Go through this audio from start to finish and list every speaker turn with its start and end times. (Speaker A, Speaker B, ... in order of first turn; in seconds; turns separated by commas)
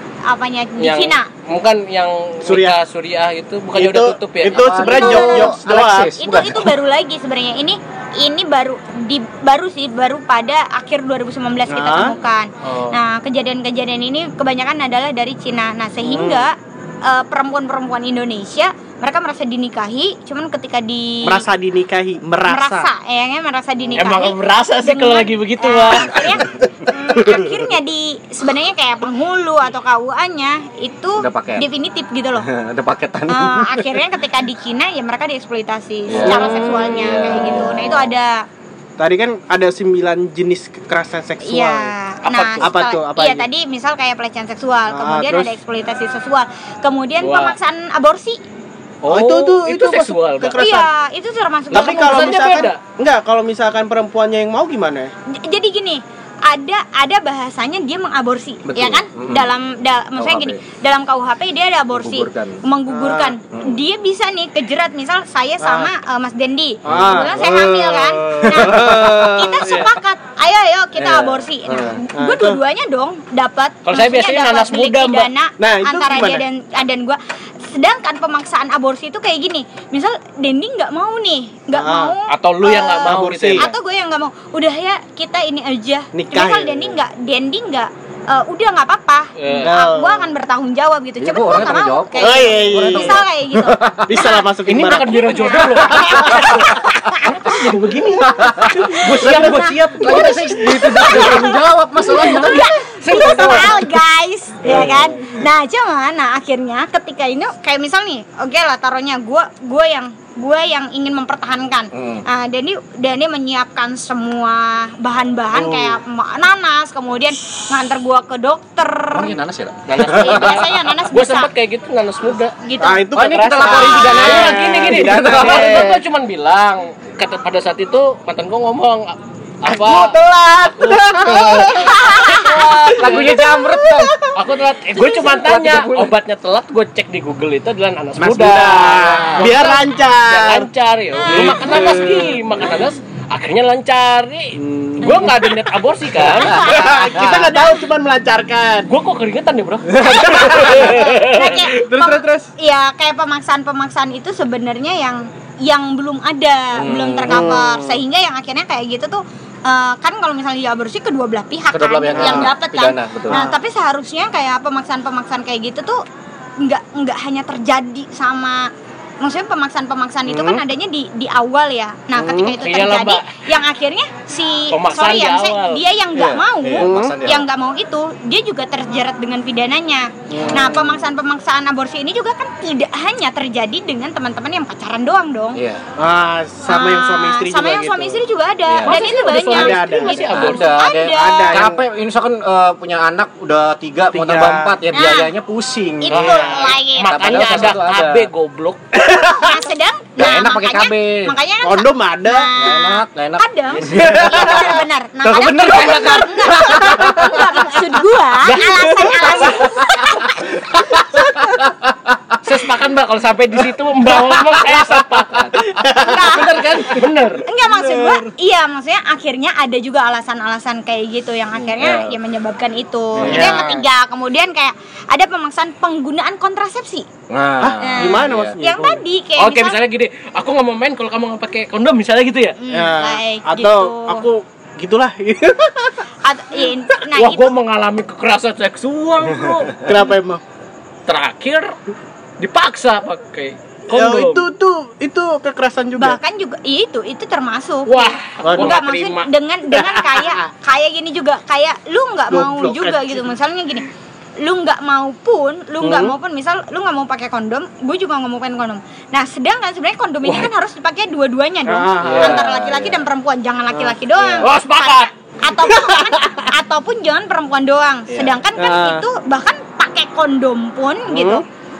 Speaker A: 0.2-1.3, Speaker B: 0.8-4.7, Speaker C: 2.4-2.8, Speaker C: 3.8-6.1, Speaker D: 4.5-6.8, Speaker A: 4.7-21.4, Speaker C: 11.7-12.1, Speaker B: 12.6-13.0, Speaker C: 16.0-16.4, Speaker C: 21.2-22.9, Speaker A: 22.4-32.5, Speaker B: 23.9-26.4, Speaker D: 31.2-31.6, Speaker D: 32.4-34.0, Speaker A: 33.3-38.5, Speaker D: 36.1-38.1, Speaker C: 36.2-36.8, Speaker B: 36.2-36.9, Speaker C: 39.0-41.9, Speaker A: 41.4-48.4, Speaker B: 42.2-42.7, Speaker C: 42.6-43.5, Speaker C: 44.9-45.5, Speaker B: 47.2-47.6, Speaker B: 49.0-50.6, Speaker C: 49.0-50.9, Speaker A: 50.5-52.6, Speaker B: 51.7-52.8, Speaker C: 51.7-55.1, Speaker A: 55.3-94.4, Speaker D: 58.7-59.5, Speaker D: 60.2-60.6, Speaker D: 61.9-62.6, Speaker C: 62.9-63.3, Speaker D: 63.5-63.8, Speaker C: 65.6-65.9, Speaker D: 66.8-67.4, Speaker C: 66.9-69.9, Speaker D: 68.4-69.0, Speaker D: 71.0-72.0, Speaker C: 71.7-72.6, Speaker B: 73.8-75.3, Speaker C: 75.6-76.4, Speaker C: 81.7-82.1, Speaker B: 82.3-83.7, Speaker C: 83.0-83.7, Speaker C: 86.1-87.0, Speaker B: 89.4-89.7, Speaker C: 89.6-90.3, Speaker D: 91.2-94.0, Speaker C: 92.2-93.2, Speaker C: 94.0-96.6, Speaker B: 94.6-101.5, Speaker A: 95.2-97.7, Speaker D: 98.4-103.8, Speaker C: 98.4-99.6, Speaker A: 99.2-119.4, Speaker B: 102.0-103.9, Speaker C: 104.6-105.0, Speaker D: 111.9-112.2, Speaker C: 115.5-116.0, Speaker D: 119.1-120.8, Speaker B: 119.9-122.6, Speaker A: 120.0-121.5, Speaker A: 122.5-124.2, Speaker C: 122.8-126.0, Speaker D: 123.1-126.0, Speaker B: 123.6-133.5, Speaker C: 129.7-134.3, Speaker D: 131.2-134.2, Speaker A: 131.9-132.4, Speaker B: 134.3-146.7, Speaker D: 135.4-135.9, Speaker C: 138.2-140.7, Speaker C: 141.2-142.4, Speaker A: 141.2-141.6, Speaker C: 144.6-145.6, Speaker A: 145.0-145.3, Speaker C: 146.1-148.9, Speaker A: 146.2-147.8, Speaker D: 146.4-147.4, Speaker B: 148.9-151.7, Speaker C: 149.9-152.5, Speaker A: 150.0-166.0, Speaker D: 156.7-157.5, Speaker C: 157.2-158.0, Speaker D: 161.7-163.4, Speaker C: 162.1-162.5, Speaker C: 163.3-163.6, Speaker A: 166.6-168.7, Speaker A: 169.2-185.6, Speaker C: 170.2-170.6, Speaker C: 172.2-172.6, Speaker B: 172.6-173.4, Speaker B: 174.7-175.8, Speaker D: 176.1-177.4, Speaker C: 176.8-177.2, Speaker C: 180.3-181.1, Speaker D: 180.4-180.7, Speaker D: 185.5-185.8, Speaker C: 186.0-188.2, Speaker A: 186.7-191.7, Speaker D: 188.7-189.0, Speaker B: 188.8-190.7, Speaker C: 189.5-191.8, Speaker D: 190.2-198.3, Speaker C: 194.1-194.8, Speaker A: 194.9-195.3, Speaker A: 196.0-197.6, Speaker B: 196.1-198.8, Speaker C: 198.9-199.6, Speaker A: 199.1-211.1, Speaker D: 200.2-201.3, Speaker C: 201.6-202.5, Speaker D: 202.6-204.7, Speaker C: 203.8-207.7, Speaker D: 205.3-205.9, Speaker B: 205.6-206.3, Speaker B: 208.4-209.6, Speaker C: 209.0-209.7, Speaker B: 212.4-217.5, Speaker C: 214.1-215.0, Speaker C: 215.5-217.0, Speaker A: 215.9-216.6, Speaker A: 217.4-227.1, Speaker C: 217.6-218.3, Speaker D: 223.2-223.6, Speaker C: 223.2-223.8, Speaker D: 227.3-228.6, Speaker C: 227.6-229.0, Speaker A: 227.8-229.8, Speaker B: 229.4-232.6, Speaker A: 232.6-234.3, Speaker C: 232.7-236.0, Speaker A: 236.2-237.5, Speaker B: 237.1-239.9, Speaker C: 239.8-240.4, Speaker B: 241.1-241.8, Speaker B: 242.4-244.5, Speaker C: 243.9-246.2, Speaker A: 246.0-253.9, Speaker B: 247.8-249.3, Speaker C: 248.4-248.8, Speaker C: 250.0-250.4, Speaker C: 252.3-253.2, Speaker A: 254.4-271.4, Speaker C: 255.8-256.1, Speaker B: 260.2-260.5, Speaker C: 261.6-262.5, Speaker D: 262.0-263.0, Speaker C: 263.7-264.5, Speaker B: 264.4-266.5, Speaker C: 268.6-269.0, Speaker C: 271.1-271.4